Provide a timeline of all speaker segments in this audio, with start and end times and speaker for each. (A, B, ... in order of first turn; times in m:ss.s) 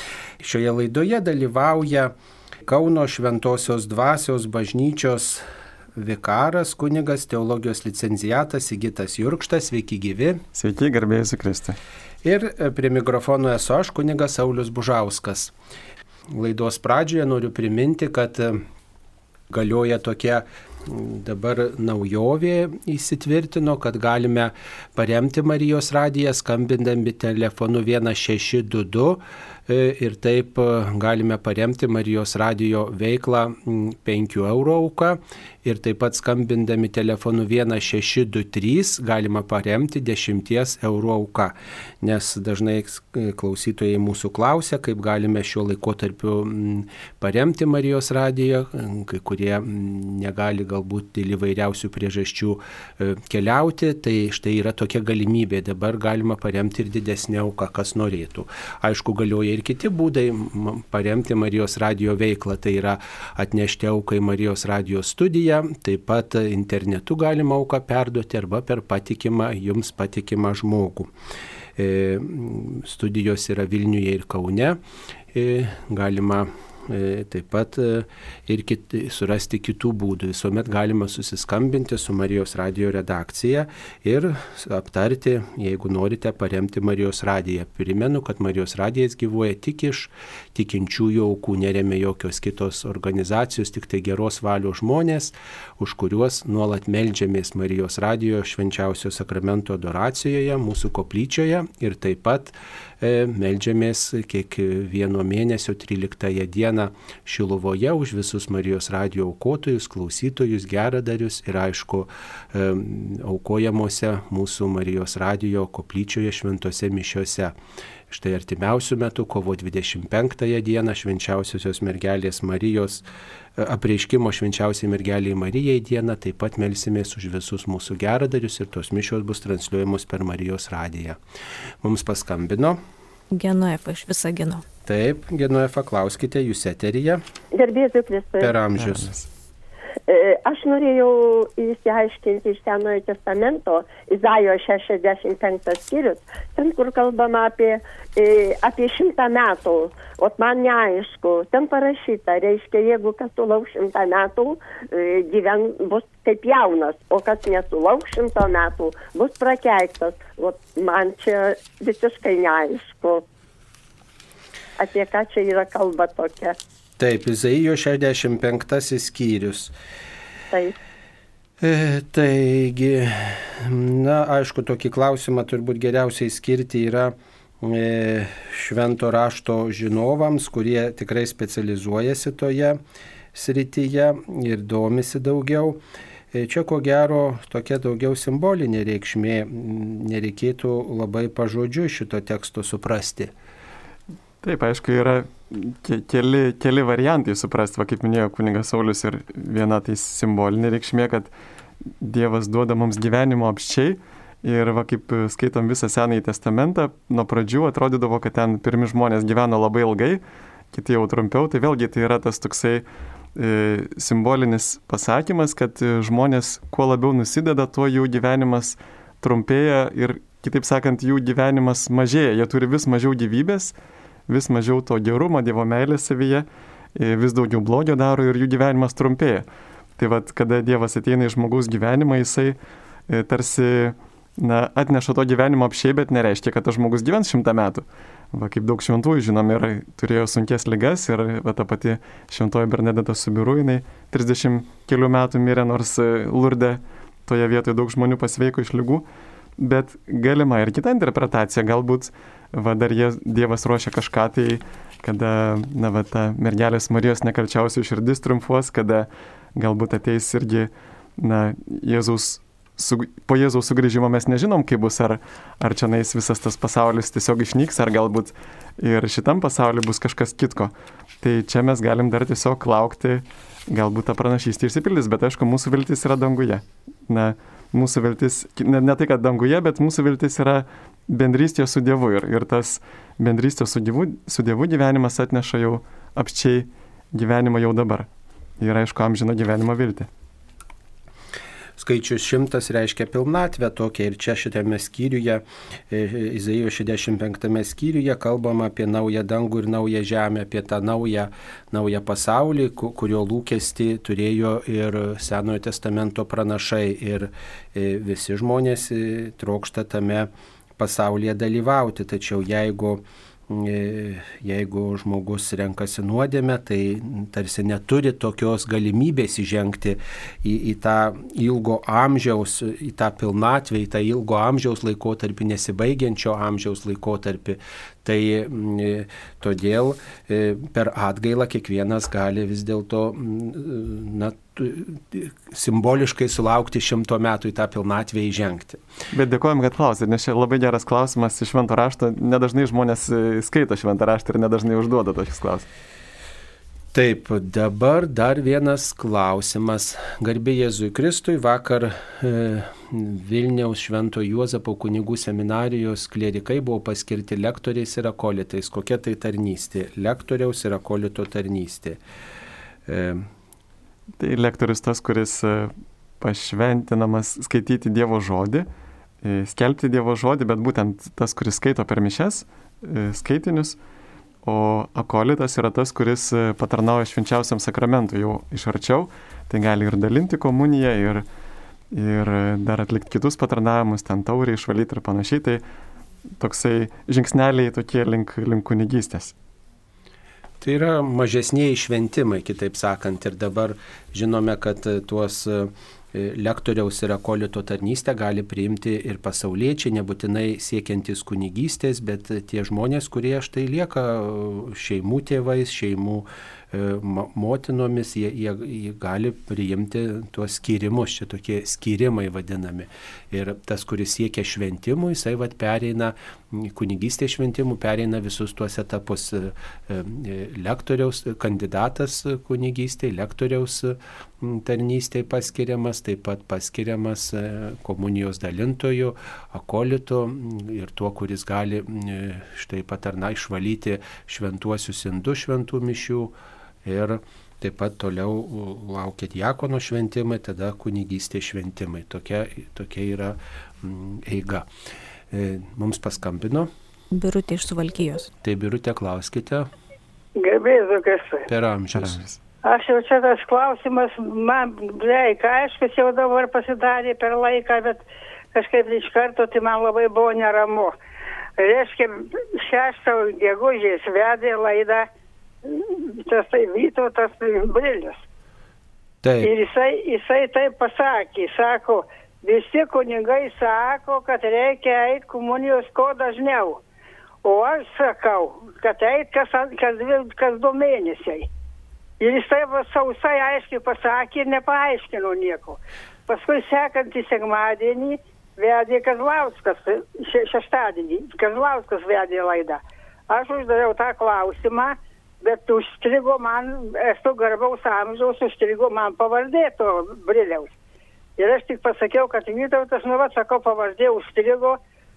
0:00.4-0:02.1 A
0:02.7-0:05.4 A
0:06.0-0:10.4 A
0:10.5-0:11.8 B
0:12.2-0:15.5 A
0:16.3-0:18.6 A
0:19.5-1:11.1 A
1:11.8-1:14.8 A
1:15.3-1:57.5 A
1:58.1-2:03.0 A
2:03.6-2:11.2 A
2:11.8-2:12.8 A
2:13.3-2:14.6 C
2:14.8-2:17.2 A
2:17.5-2:18.5 D
2:18.4-2:19.1 A
2:18.8-2:19.3 B
2:20.1-2:43.2 D
2:44.8-2:46.6 D
2:47.0-2:49.7 A
2:51.6-3:02.8 A
3:03.3-3:05.8 A
3:06.3-3:13.3 A
3:14.4-3:21.3 B
3:22.0-3:43.8 B
3:44.3-3:49.5 B
3:50.0-3:52.6 B
3:53.1-4:09.1 B
4:09.6-4:48.1 B
4:48.6-4:50.1 B
4:51.8-5:38.8 A
5:39.1-5:45.7 B
5:46.9-6:02.0 A
6:02.9-6:03.3 A
6:04.2-6:08.7 B
6:09.2-6:13.8 B
6:14.4-6:21.2 B
6:21.9-6:25.6 B
6:26.4-6:29.3 B
6:30.6-7:16.3 A
7:16.8-7:24.7 A
7:25.3-7:26.7 A
7:27.1-7:28.3 C
7:28.4-7:29.7 A
7:30.4-7:31.5 E
7:31.5-7:32.2 A
7:31.9-7:32.4 B
7:32.6-7:41.0 E
7:41.6-7:45.1 E
7:45.6-7:48.3 E
7:49.2-7:49.5 A
7:49.4-7:56.8 E
7:57.4-8:01.5 E
8:02.2-8:20.7 E
8:21.4-8:24.8 E